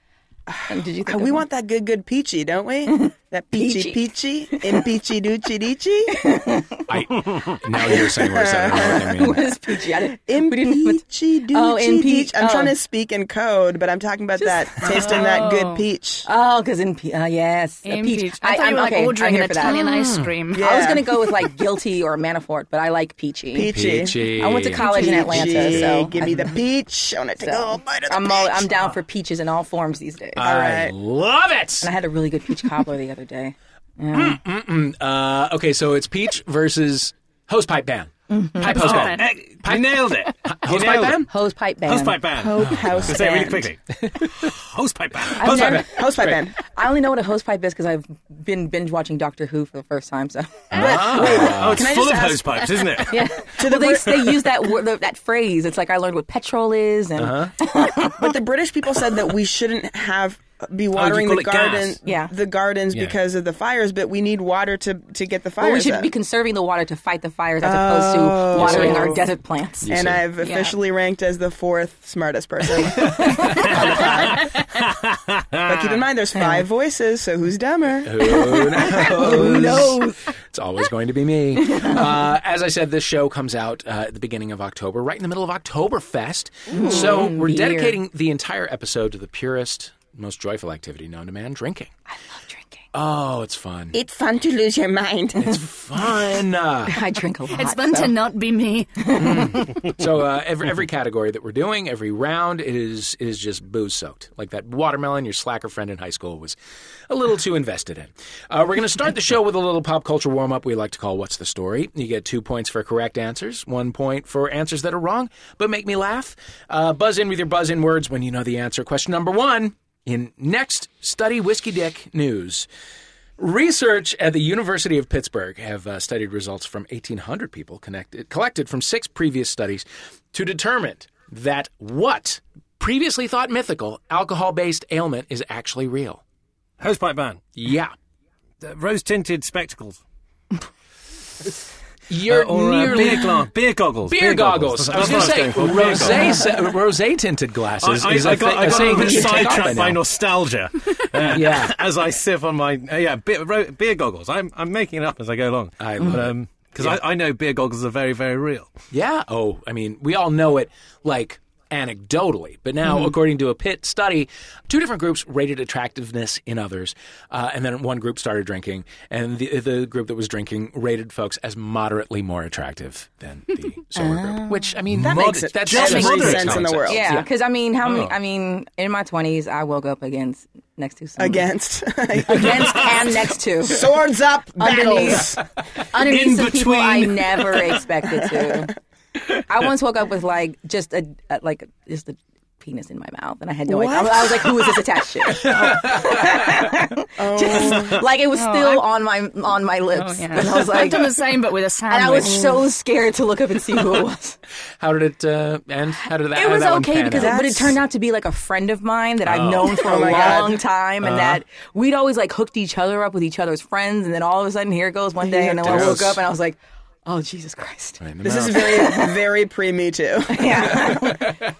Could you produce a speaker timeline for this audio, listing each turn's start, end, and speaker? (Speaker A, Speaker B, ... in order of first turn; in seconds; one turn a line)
Speaker A: 0.5-6.2
Speaker B: 0.7-1.4
Speaker B: 2.9-4.0
Speaker B: 6.2-6.8
Speaker C: 6.9-9.6
Speaker A: 7.9-9.2
Speaker B: 8.8-12.7
Speaker A: 10.1-16.3
Speaker B: 14.4-15.4
Speaker D: 14.9-15.8
Speaker B: 16.3-20.0
Speaker D: 17.8-20.7
Speaker C: 19.8-20.3
Speaker A: 20.5-21.5
Speaker B: 20.5-23.7
Speaker A: 23.5-28.9
Speaker C: 23.7-25.9
Speaker B: 24.4-26.6
Speaker D: 24.8-25.3
Speaker B: 27.4-30.6
Speaker C: 30.4-31.9
Speaker A: 30.4-30.9
Speaker B: 31.8-34.4
Speaker C: 34.1-41.3
Speaker B: 38.3-38.9
Speaker D: 38.6-39.3
Speaker E: 38.9-41.3
Speaker B: 41.3-42.3
Speaker E: 41.8-45.8
Speaker A: 42.4-43.7
Speaker C: 42.7-43.1
Speaker B: 45.4-51.5
Speaker A: 45.5-46.6
Speaker C: 45.6-46.4
Speaker C: 50.7-51.9
Speaker A: 50.8-52.7
Speaker E: 51.3-53.1
Speaker B: 53.1-58.3
Speaker A: 53.5-54.6
Speaker C: 57.2-57.5
Speaker A: 58.1-66.1
Speaker E: 60.9-62.0
Speaker B: 62.1-62.3
Speaker B: 65.6-69.9
Speaker A: 67.6-69.2
Speaker C: 68.5-69.2
Speaker C: 69.8-70.2
Speaker A: 69.9-74.5
Speaker D: 70.4-70.7
Speaker E: 75.6-75.8
Speaker A: 75.7-78.5
Speaker B: 76.4-76.6
Speaker C: 78.0-91.9
Speaker B: 78.4-80.2
Speaker B: 81.6-82.2
Speaker B: 86.7-88.0
Speaker A: 86.7-87.3
Speaker B: 92.1-92.8
Speaker C: 92.9-94.0
Speaker A: 93.9-95.6
Speaker C: 95.4-97.0
Speaker B: 96.9-98.2
Speaker D: 97.5-99.2
Speaker B: 99.1-100.0
Speaker C: 99.1-106.6
Speaker C: 107.1-122.7
Speaker C: 123.4-136.2
Speaker E: 136.8-137.4
Speaker C: 137.6-137.9
Speaker E: 138.6-140.0
Speaker C: 142.1-143.4
Speaker E: 142.3-146.4
Speaker C: 144.1-150.0
Speaker E: 147.8-158.7
Speaker C: 151.2-151.8
Speaker C: 155.8-157.0
Speaker C: 158.9-177.3
Speaker B: 174.0-174.6
Speaker A: 174.9-177.2
Speaker E: 175.6-176.8
Speaker B: 176.9-181.4
Speaker E: 177.8-178.2
Speaker A: 181.2-185.4
Speaker B: 182.3-183.9
Speaker B: 184.6-188.7
Speaker E: 186.0-187.8
Speaker B: 189.3-201.2
Speaker A: 193.7-194.8
Speaker C: 195.4-196.2
Speaker A: 197.2-198.1
Speaker D: 198.3-198.9
Speaker D: 199.9-202.6
Speaker B: 201.9-204.4
Speaker C: 204.8-207.4
Speaker B: 206.3-218.0
Speaker A: 207.1-207.8
Speaker C: 209.2-210.1
Speaker A: 209.6-210.7
Speaker C: 211.0-211.4
Speaker A: 215.2-216.2
Speaker C: 215.6-216.2
Speaker C: 218.0-218.8
Speaker A: 218.2-221.1
Speaker B: 218.6-219.2
Speaker B: 220.3-221.4